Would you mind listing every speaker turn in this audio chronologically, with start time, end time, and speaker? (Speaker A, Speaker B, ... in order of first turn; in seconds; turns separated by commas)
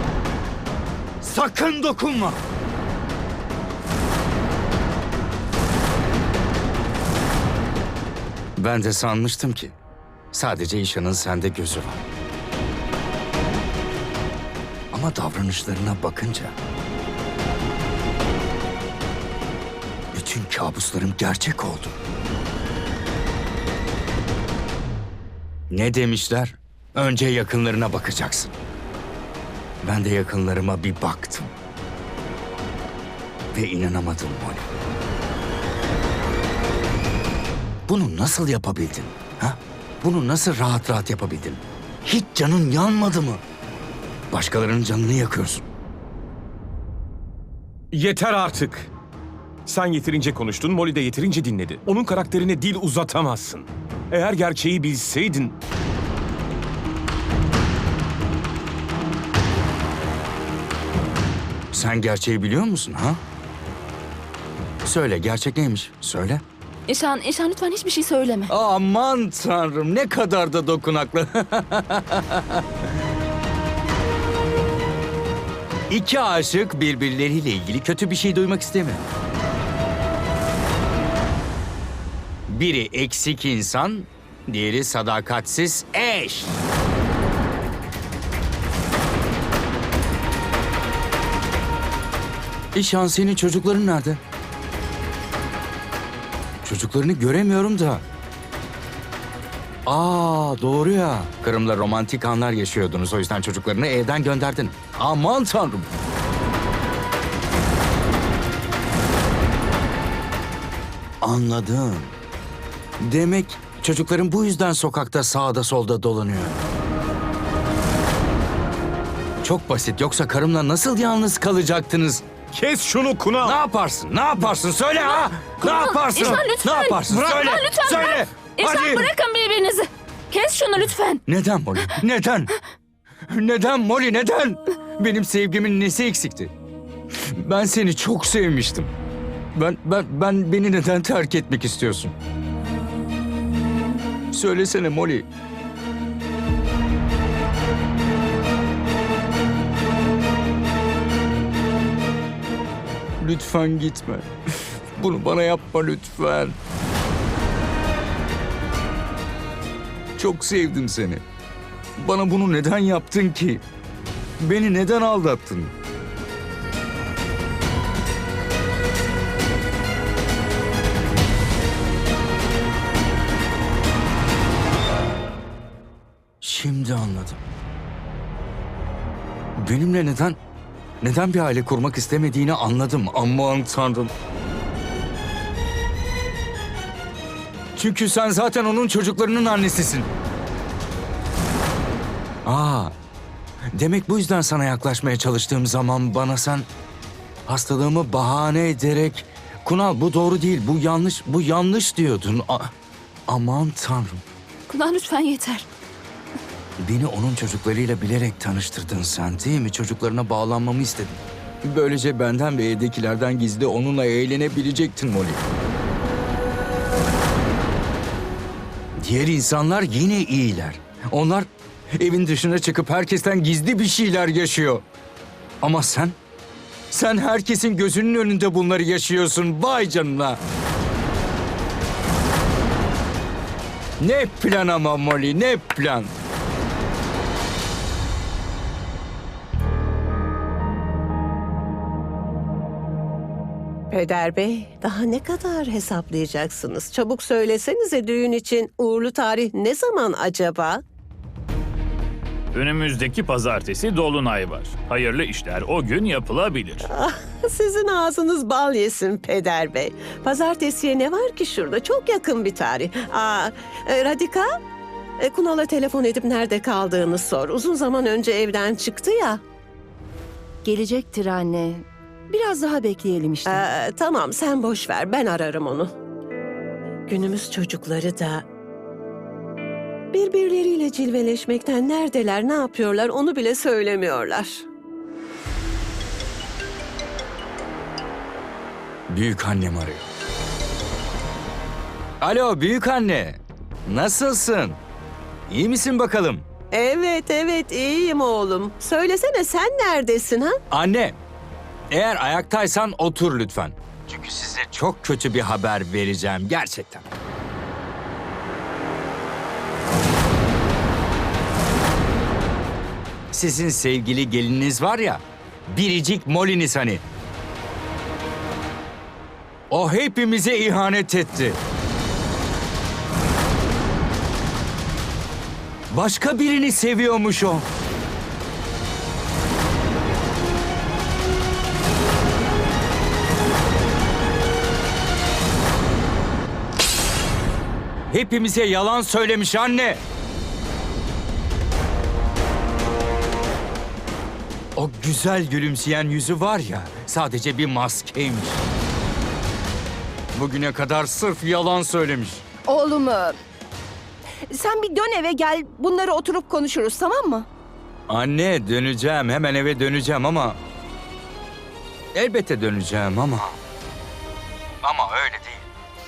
Speaker A: 1.2-2.4, Speaker A: 8.6-9.8, Speaker A: 10.3-12.0, Speaker A: 14.9-16.5, Speaker A: 20.1-21.9, Speaker A: 25.7-28.6, Speaker A: 29.8-31.5, Speaker A: 33.5-34.6, Speaker A: 37.9-43.4, Speaker A: 44.3-45.7, Speaker B: 47.9-48.9, Speaker B: 49.7-55.5, Speaker A: 61.7-63.2, Speaker A: 64.8-66.4, Speaker C: 66.9-68.5, Speaker A: 68.5-72.6, Speaker A: 75.9-79.1, Speaker A: 82.5-86.6, Speaker A: 92.7-94.2, Speaker A: 96.6-98.0, Speaker A: 99.9-105.9, Speaker A: 111.2-112.1, Speaker A: 113.0-116.6, Speaker A: 119.4-122.2, Speaker B: 122.5-123.6, Speaker A: 123.4-129.1, Speaker C: 125.0-131.2, Speaker A: 131.3-132.5, Speaker A: 133.3-136.5, Speaker A: 137.3-138.9, Speaker A: 139.6-142.1, Speaker A: 144.3-145.3, Speaker A: 153.2-154.3, Speaker A: 155.0-156.6, Speaker A: 160.2-161.2, Speaker A: 162.0-163.6, Speaker A: 164.4-165.7, Speaker A: 176.4-177.4, Speaker A: 179.6-180.4, Speaker A: 181.0-184.1, Speaker A: 187.8-190.1, Speaker A: 192.5-192.9, Speaker A: 193.7-196.7, Speaker A: 197.5-202.7, Speaker A: 203.3-204.2, Speaker C: 204.7-205.7, Speaker A: 206.8-215.4, Speaker A: 219.0-224.8, Speaker A: 225.6-226.2, Speaker A: 226.9-230.4, Speaker A: 234.0-236.1, Speaker D: 243.9-250.8, Speaker E: 252.5-256.9, Speaker D: 256.9-264.5, Speaker D: 265.2-269.4, Speaker F: 270.6-273.6, Speaker D: 273.5-275.9, Speaker D: 277.1-278.4, Speaker D: 280.1-284.6, Speaker A: 289.1-290.0, Speaker A: 292.2-294.8, Speaker A: 295.5-296.4, Speaker D: 296.7-300.6, Speaker A: 300.7-301.2, Speaker A: 301.9-307.1, Speaker A: 313.3-317.0, Speaker A: 319.7-321.6, Speaker A: 325.9-327.7, Speaker A: 338.1-340.0, Speaker A: 344.8-348.6, Speaker A: 350.3-352.4, Speaker F: 352.7-353.4, Speaker F: 354.5-357.5, Speaker A: 358.1-360.6, Speaker A: 362.1-363.6, Speaker A: 364.8-365.7